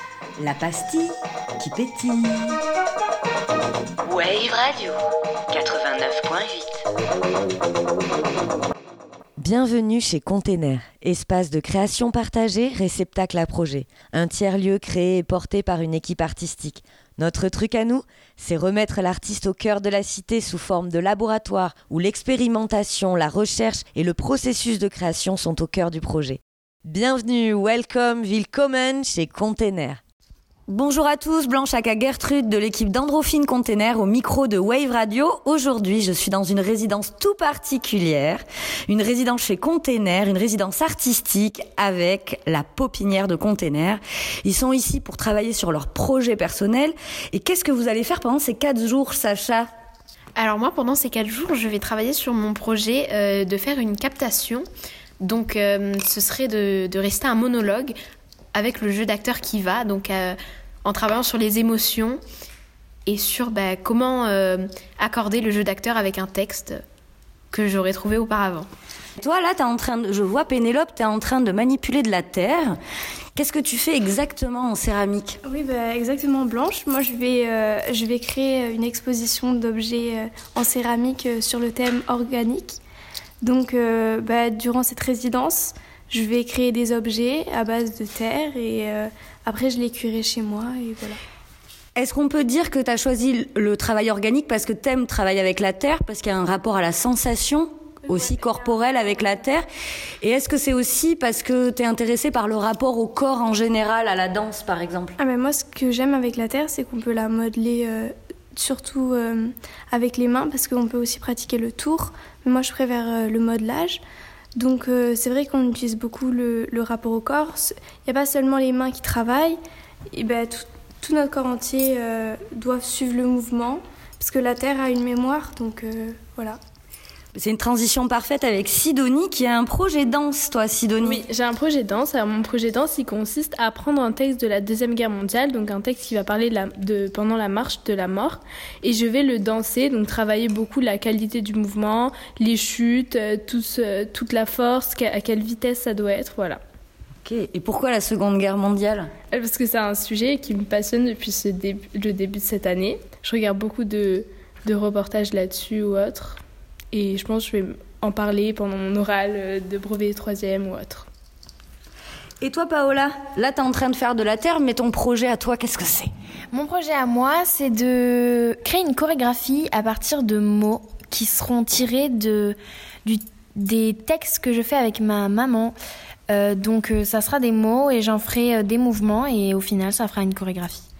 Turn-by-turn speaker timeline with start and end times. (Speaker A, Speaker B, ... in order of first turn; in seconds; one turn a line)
Speaker A: 0.4-2.6
Speaker B: 4.1-4.9
Speaker B: 5.7-6.7
Speaker A: 9.4-30.0
Speaker A: 30.7-49.7
Speaker B: 50.4-54.6
Speaker B: 55.2-57.9
Speaker B: 58.5-62.2
Speaker B: 63.1-66.8
Speaker B: 67.5-68.7
Speaker A: 69.2-72.7
Speaker A: 73.3-75.4
Speaker C: 75.4-82.8
Speaker C: 83.4-91.2
Speaker A: 91.9-99.6
Speaker A: 100.2-105.2
Speaker C: 105.2-114.0
Speaker C: 114.5-119.6
Speaker C: 120.1-126.6
Speaker A: 127.3-131.2
Speaker D: 131.0-146.6
Speaker A: 147.2-149.1
Speaker D: 149.3-156.4
Speaker D: 156.9-161.1
Speaker A: 162.4-166.1
Speaker E: 166.5-175.8
Speaker E: 176.3-180.8